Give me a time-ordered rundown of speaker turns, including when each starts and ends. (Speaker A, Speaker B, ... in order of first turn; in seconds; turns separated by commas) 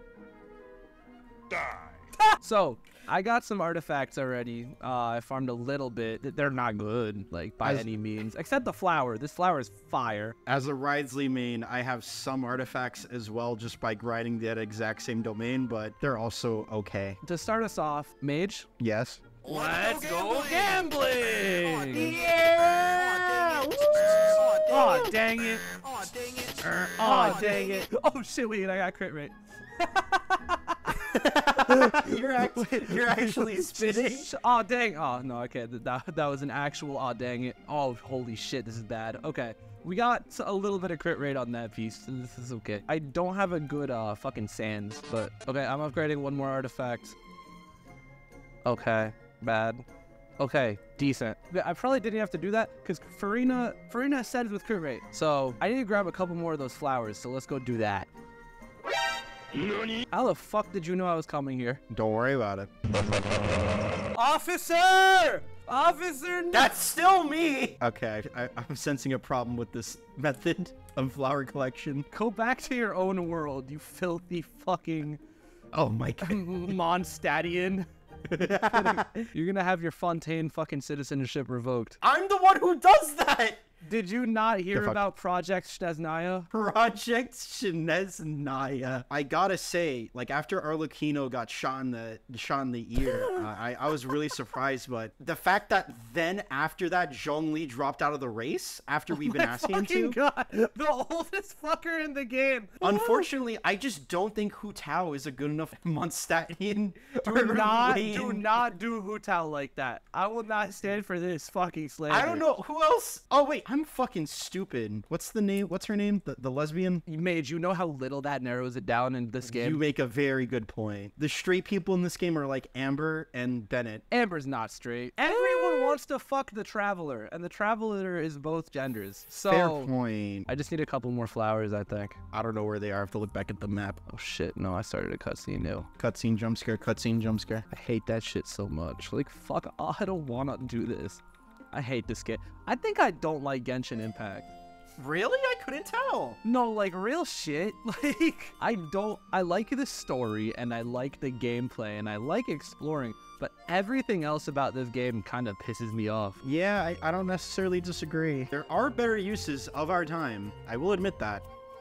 Speaker A: 2.3-10.4, Speaker B: 10.5-17.2, Speaker A: 17.2-18.7, Speaker B: 18.8-19.4, Speaker A: 19.4-22.2, Speaker B: 21.9-25.2, Speaker C: 22.9-24.5, Speaker A: 24.6-25.7, Speaker C: 25.8-26.7, Speaker B: 26.7-27.7, Speaker A: 26.9-47.2, Speaker B: 31.0-34.3, Speaker A: 48.6-49.9, Speaker A: 50.4-58.1, Speaker A: 60.1-61.8, Speaker B: 61.9-62.7, Speaker A: 64.1-66.7, Speaker B: 66.5-72.1, Speaker A: 72.1-75.2, Speaker B: 75.7-76.8, Speaker A: 76.2-77.9, Speaker B: 78.3-79.3, Speaker A: 78.7-82.0, Speaker B: 82.0-83.6, Speaker A: 83.8-86.5, Speaker B: 84.7-85.0, Speaker B: 86.5-100.2, Speaker A: 93.0-93.5, Speaker A: 99.1-103.3, Speaker B: 102.8-108.5, Speaker A: 107.2-112.4, Speaker B: 112.1-117.0, Speaker A: 117.1-119.8, Speaker B: 119.5-124.0, Speaker A: 124.1-129.9, Speaker B: 125.3-126.0, Speaker B: 129.5-130.5, Speaker A: 130.5-132.2, Speaker B: 132.3-134.0, Speaker A: 134.1-135.9, Speaker B: 136.0-137.7, Speaker A: 137.7-141.2, Speaker A: 141.7-144.5, Speaker B: 145.0-146.4, Speaker A: 146.4-156.4, Speaker B: 156.4-161.5